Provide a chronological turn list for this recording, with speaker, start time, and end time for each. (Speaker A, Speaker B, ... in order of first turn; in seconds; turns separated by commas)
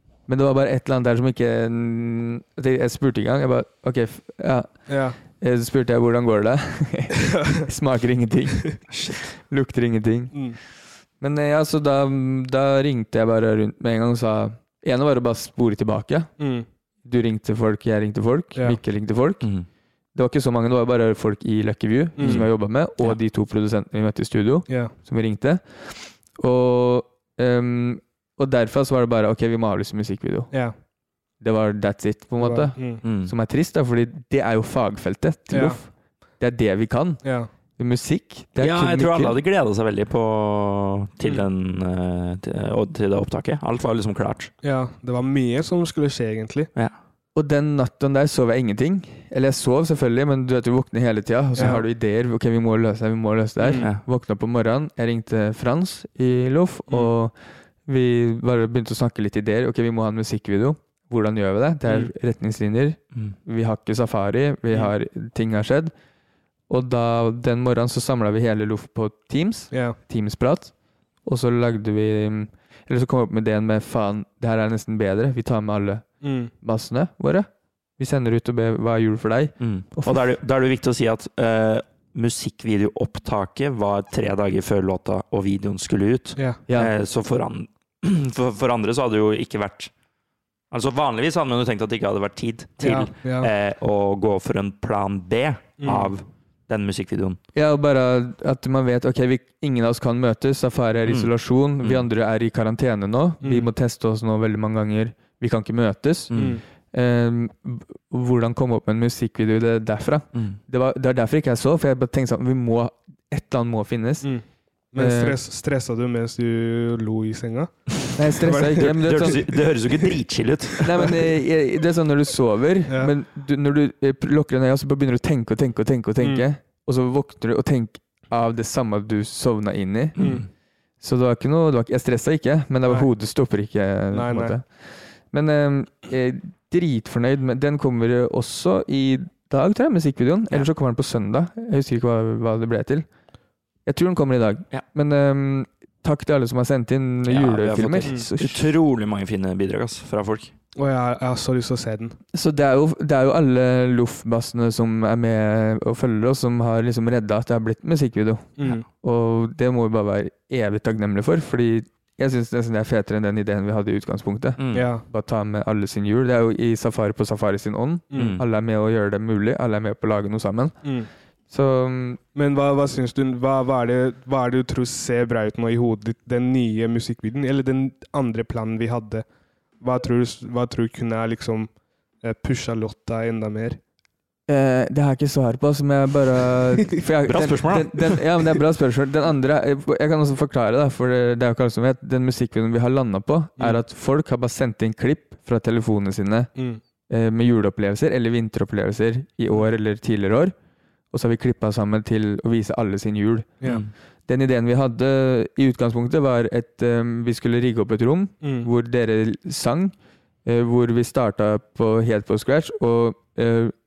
Speaker A: 0.3-8.9, Speaker B: 4.9-5.2, Speaker C: 8.9-9.2, Speaker A: 9.5-10.4, Speaker B: 10.3-10.6, Speaker A: 11.2-16.3, Speaker B: 16.4-16.6, Speaker A: 17.0-19.5, Speaker A: 20.1-30.5, Speaker B: 22.2-22.4, Speaker C: 22.2-22.5, Speaker B: 24.7-24.9, Speaker A: 31.4-35.9, Speaker B: 32.4-33.0, Speaker C: 33.0-33.3, Speaker B: 35.5-35.8, Speaker A: 36.4-37.2, Speaker B: 37.2-37.5, Speaker A: 37.8-39.4, Speaker C: 38.6-44.5, Speaker B: 44.6-46.7, Speaker A: 47.3-57.3, Speaker B: 51.6-51.8, Speaker B: 53.6-53.9, Speaker A: 57.9-65.9, Speaker A: 66.7-70.7, Speaker B: 69.7-70.0, Speaker A: 71.2-76.1, Speaker B: 76.2-76.5, Speaker A: 76.6-80.2, Speaker C: 79.6-89.9, Speaker C: 90.7-97.4, Speaker B: 92.8-93.5, Speaker B: 95.8-96.1, Speaker A: 97.5-106.3, Speaker B: 103.4-103.7, Speaker C: 106.3-106.6, Speaker B: 106.3-106.6, Speaker A: 106.9-114.3, Speaker C: 110.3-110.6, Speaker B: 114.2-117.7, Speaker A: 115.0-115.4, Speaker A: 118.2-119.5, Speaker B: 118.4-119.3, Speaker C: 118.8-121.1, Speaker A: 120.8-130.2, Speaker B: 126.2-126.5, Speaker C: 130.2-130.4, Speaker B: 130.2-130.4, Speaker A: 131.0-143.1, Speaker B: 134.1-134.6, Speaker A: 143.8-148.7, Speaker C: 147.2-150.5, Speaker B: 150.8-152.2, Speaker A: 152.3-170.8, Speaker B: 158.6-158.8, Speaker C: 164.6-164.9, Speaker B: 164.7-165.0, Speaker B: 168.1-168.4, Speaker C: 168.1-168.4, Speaker B: 170.8-171.1, Speaker A: 171.5-172.2, Speaker B: 172.3-179.2, Speaker B: 179.8-181.7, Speaker B: 182.2-183.8, Speaker A: 184.5-196.5, Speaker C: 187.2-188.2, Speaker A: 197.1-200.5, Speaker A: 201.1-203.5, Speaker A: 204.3-209.9, Speaker B: 208.4-208.7, Speaker A: 210.4-213.7